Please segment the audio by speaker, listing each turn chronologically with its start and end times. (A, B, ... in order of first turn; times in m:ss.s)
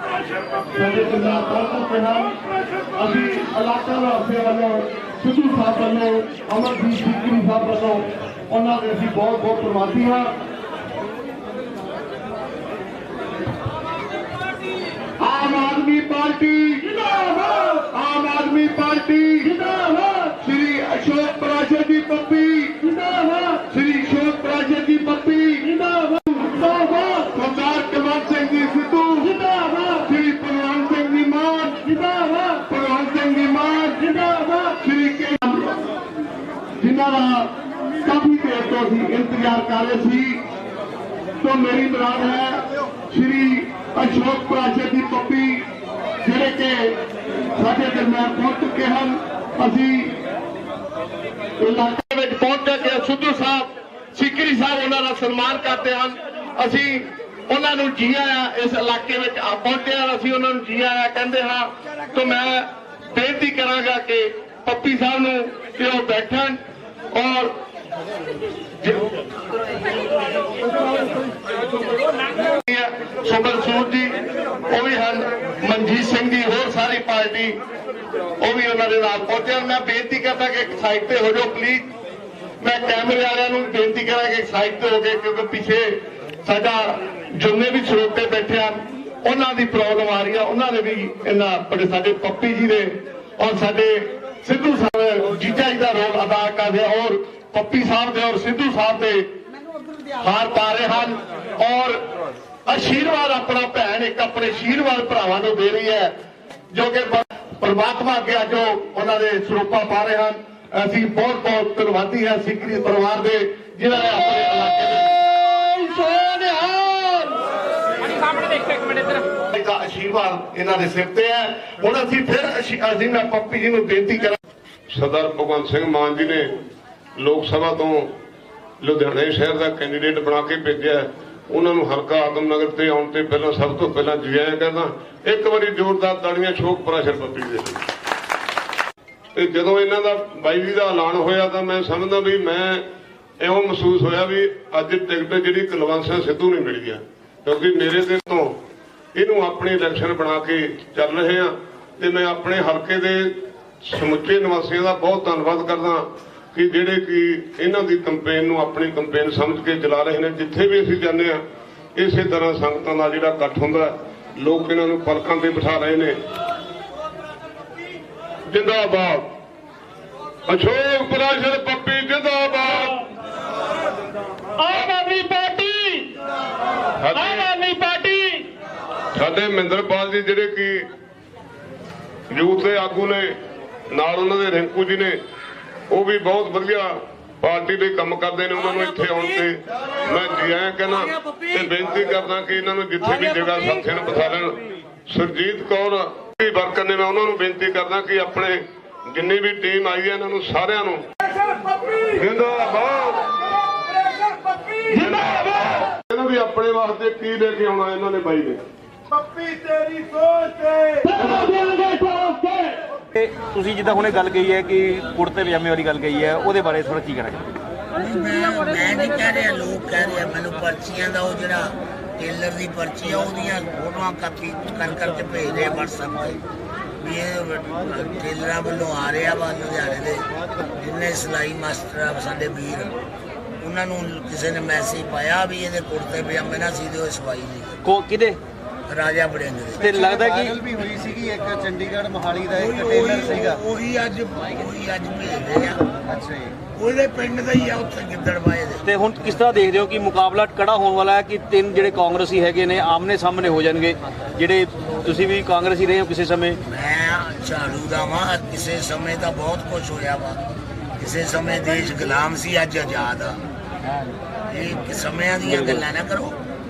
0:00.7-0:02.3 A
0:03.0-0:10.3 A
0:15.2-0:35.7 A
0:36.8-0:37.5 A
0:38.0-0:40.4 A
0:41.4-0:45.6 A
0:46.2-0:46.9 A
0:47.6-0:50.1 A
0:51.6-1:06.6 A
1:07.1-1:07.5 A
1:08.8-1:09.1 A
1:12.5-1:14.1 A
1:14.7-1:17.6 A
1:18.4-1:21.9 A
1:22.6-1:25.9 A
1:26.4-1:39.2 A
1:40.2-1:42.0 A
1:42.6-1:46.1 A
1:46.7-1:57.4 A
1:58.2-2:04.4 A
2:04.9-2:06.5 B
2:07.2-2:08.1 B
2:08.8-2:17.8 B
2:19.4-2:22.8 B
2:23.4-2:28.5 B
2:29.1-2:41.4 B
2:42.0-2:46.2 B
2:48.5-2:49.3 B
2:50.5-2:53.0 B
2:54.6-2:56.1 A
2:57.0-2:57.5 B
2:57.1-2:58.4 A
2:59.1-3:00.8 B
3:02.3-3:03.3 B
3:03.9-3:05.2 B
3:05.9-3:14.6 B
3:15.1-3:21.1 B
3:22.1-3:23.3 B
3:24.9-3:28.6 B
3:31.0-3:32.7 A
3:33.1-3:37.4 C
3:38.0-3:46.4 D
3:47.0-3:50.2 D
3:50.8-3:53.0 D
3:53.6-3:57.8 D
3:57.8-3:58.4 C
3:58.9-3:59.9 D
3:59.8-4:03.6 E
3:59.8-4:00.6 C
4:02.5-4:05.8 D
4:06.1-4:06.5 E
4:06.7-4:08.8 D
4:08.8-4:16.6 C
4:16.7-4:20.4 D
4:21.0-4:23.4 D
4:24.5-4:26.4 D
4:25.4-4:25.8 C